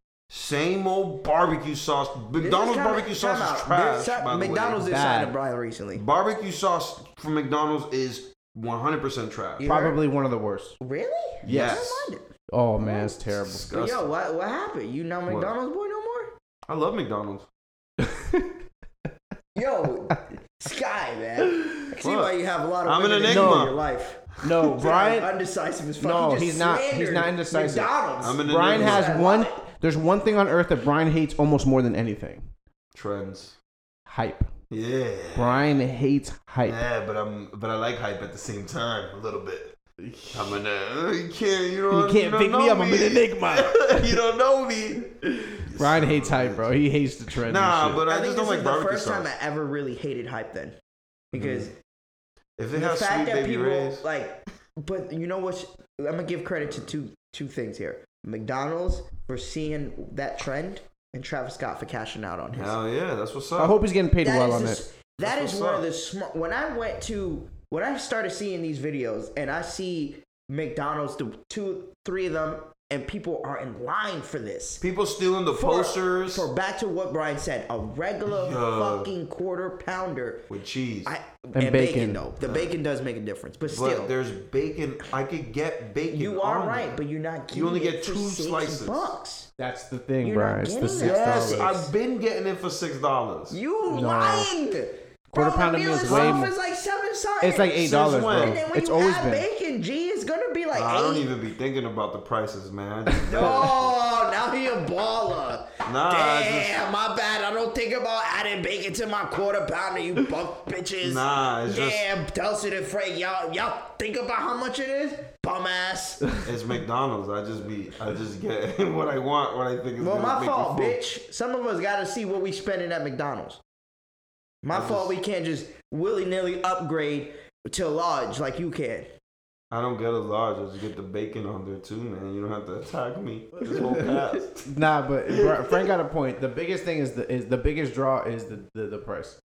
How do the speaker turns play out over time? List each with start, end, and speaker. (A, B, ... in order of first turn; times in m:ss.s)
0:00.3-0:04.8 A
0:02.4-0:06.0 B
0:04.8-0:05.4 C
0:06.0-0:09.7 A
0:09.6-0:10.0 B
0:09.6-0:10.8 C
0:10.8-0:12.3 B
0:11.4-0:12.0 A
0:11.4-0:13.7 C
0:12.8-0:14.1 A
0:13.7-0:16.3 B
0:15.3-0:15.5 A
0:16.7-0:17.5 A
0:18.0-0:18.5 C
0:19.6-0:29.6 B
0:22.0-0:22.3 A
0:22.8-0:23.8 A
0:23.3-0:23.8 C
0:24.4-0:25.3 C
0:26.0-0:32.5 C
0:28.2-0:29.2 A
0:32.9-0:33.6 A
0:34.1-0:34.5 C
0:34.7-0:35.8 A
0:35.4-0:36.8 C
0:36.6-0:39.8 A
0:40.0-0:40.6 C
0:40.3-0:46.7 A
0:41.9-0:44.2 C
0:45.2-0:48.0 C
0:47.4-0:49.3 A
0:48.1-0:50.8 B
0:51.3-0:51.7 A
0:51.3-0:51.7 B
0:52.6-0:54.0 A
0:52.7-1:02.8 B
0:56.6-0:56.9 A
1:02.5-1:03.8 A
1:03.6-1:04.8 C
1:04.2-1:14.8 B
1:05.2-1:05.8 A
1:14.8-1:16.5 A
1:15.5-1:20.5 B
1:18.3-1:19.1 A
1:20.5-1:21.1 A
1:21.0-1:24.1 B
1:21.6-1:22.2 C
1:22.4-1:22.7 A
1:23.7-1:27.0 A
1:26.1-1:29.5 B
1:27.5-1:29.1 A
1:29.6-1:31.9 C
1:30.2-1:31.7 B
1:31.0-1:33.6 A
1:33.5-1:41.3 B
1:33.9-1:34.5 C
1:35.3-1:36.5 C
1:36.0-1:36.4 A
1:37.4-1:39.4 C
1:37.8-1:38.6 A
1:40.7-1:43.9 A
1:43.3-1:56.3 B
1:43.3-1:43.6 C
1:45.8-1:46.8 A
1:51.0-1:52.0 A
1:56.4-2:01.0 A
2:00.0-2:03.6 B
2:04.6-2:09.2 B
2:04.7-2:05.1 A
2:09.7-2:15.9 A
2:13.6-2:19.4 C